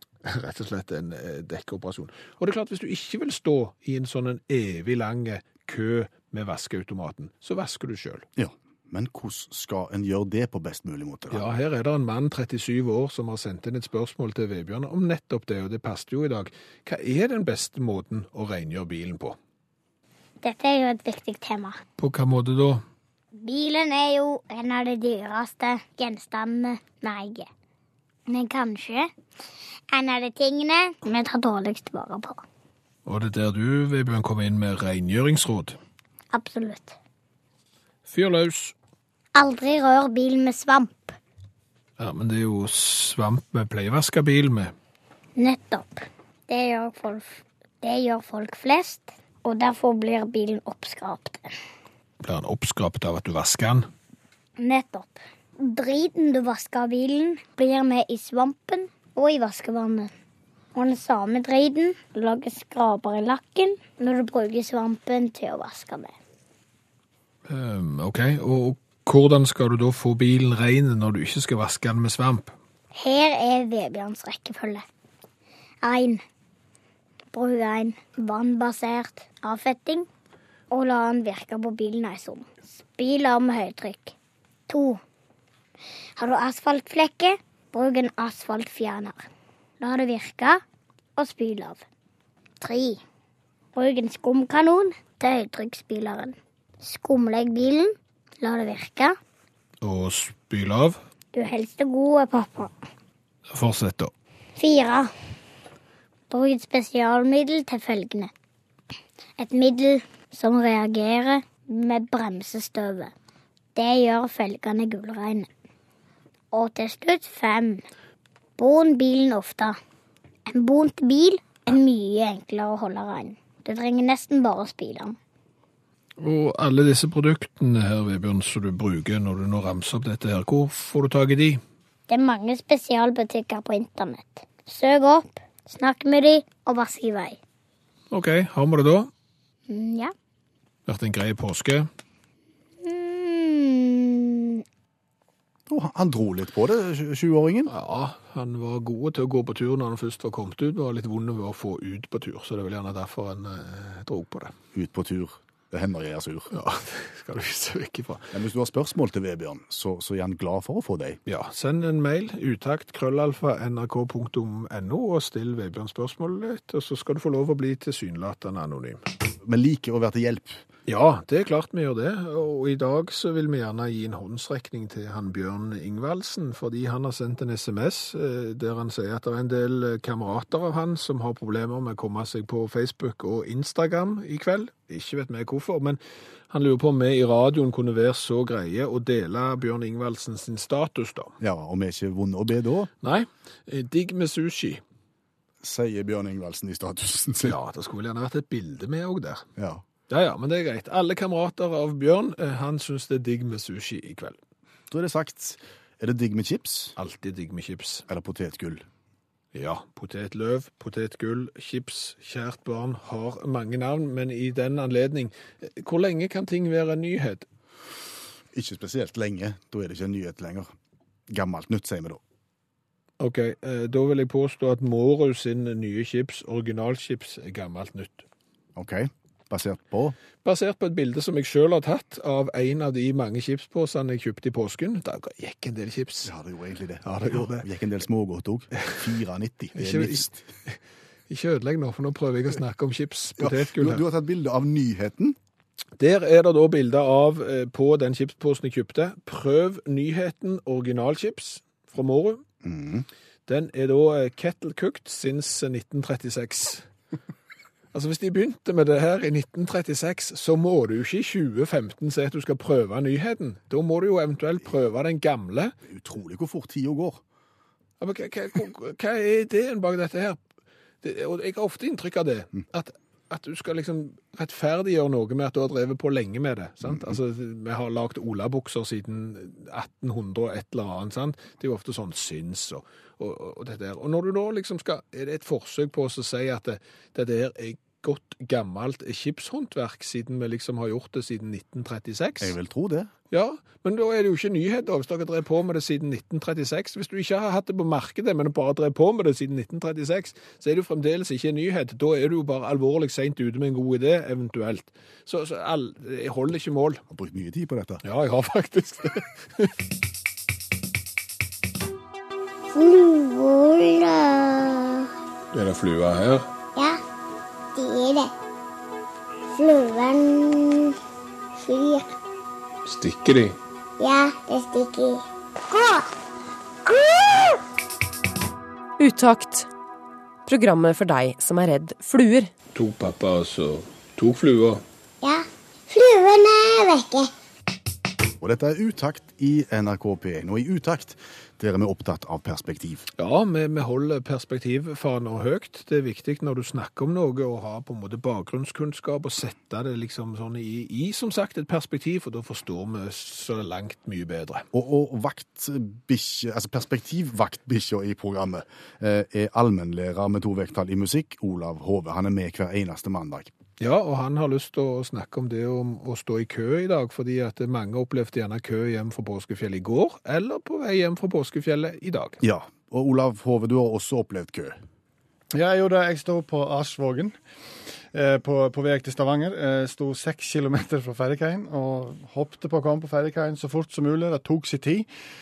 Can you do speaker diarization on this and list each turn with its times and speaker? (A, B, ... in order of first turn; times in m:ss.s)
0:00.2-0:08.3 A
0:08.4-0:11.5 B
0:11.3-0:19.4 A
0:20.4-0:21.8 C
0:22.0-0:22.8 A
0:23.4-0:27.5 C
0:28.3-0:29.1 C
0:29.9-0:32.4 C
0:33.0-0:35.8 A
0:36.3-0:36.9 C
0:38.1-0:38.7 A
0:39.3-0:41.2 C
0:42.0-0:44.7 A
0:45.4-0:51.5 C
0:52.2-0:53.9 A
0:54.6-1:00.1 C
1:00.7-1:06.1 C
1:07.5-1:12.5 A
1:12.9-1:14.8 C
1:15.8-1:16.2 C
1:17.3-1:20.1 C
1:20.7-1:24.1 C
1:24.7-1:25.0 C
1:26.2-1:29.3 C
1:29.8-1:30.6 C
1:31.2-1:31.8 C
1:32.6-1:33.0 C
1:33.7-1:39.1 C
1:39.8-1:41.0 A
1:41.3-1:42.7 C
1:43.5-1:44.1 A
1:44.6-1:45.1 C
1:46.3-1:48.3 C
1:49.4-1:53.1 C
1:53.8-1:55.5 C
1:56.5-1:57.8 C
1:58.6-1:59.8 C
2:00.5-2:05.2 C
2:06.2-2:11.6 A
2:12.1-2:17.4 C
2:18.1-2:19.1 A
2:19.7-2:20.1 C
2:20.9-2:21.9 A
2:22.8-2:24.6 C
2:25.7-2:27.7 B
2:27.7-2:34.5 A
2:34.7-2:36.5 B
2:36.5-2:38.3 A
2:38.3-2:41.2 B
2:41.2-2:49.0 A
2:49.4-2:50.6 B
2:50.9-3:11.3 A
3:11.4-3:12.9 B
3:13.0-3:14.8 A
3:15.6-3:17.6 B
3:17.4-3:19.4 A
3:19.6-3:19.8 B
3:20.1-3:24.4 A
3:24.9-3:27.0 B
3:27.0-3:28.0 A
3:28.1-3:28.8 B
3:29.5-3:37.4 A
3:38.5-3:40.7 B
3:41.3-3:42.2 B
3:43.2-3:48.2 A
3:48.8-3:50.2 B
3:50.4-3:56.3 A
3:56.2-4:00.4 B
3:57.0-3:57.7 A
3:59.7-4:00.8 A
4:01.3-4:04.0 A
4:03.4-4:05.4 B
4:06.0-4:12.4 A
4:12.6-4:13.0 B
4:13.5-4:16.9 A
4:17.9-4:25.7 A
4:25.8-4:27.2 B
4:28.0-4:30.4 A
4:31.0-4:52.5 A
4:52.4-4:53.1 B
4:53.3-5:07.0 A
5:07.1-5:08.0 B
5:08.0-5:09.7 A
5:12.7-5:15.1 C
5:15.5-5:16.5 A
5:17.7-5:18.3 C
5:19.5-5:21.0 C
5:21.6-5:22.1 C
5:22.8-5:23.6 A
5:24.0-5:25.2 C
5:29.0-5:29.7 D
5:30.4-5:32.5 D
5:32.7-5:34.8 A
5:35.2-5:37.3 C
5:38.4-5:43.0 B
5:43.2-5:54.6 A
5:54.7-6:03.5 B
6:03.8-6:12.4 A
6:12.4-6:14.8 B
6:15.5-6:17.3 E
6:18.1-6:25.1 E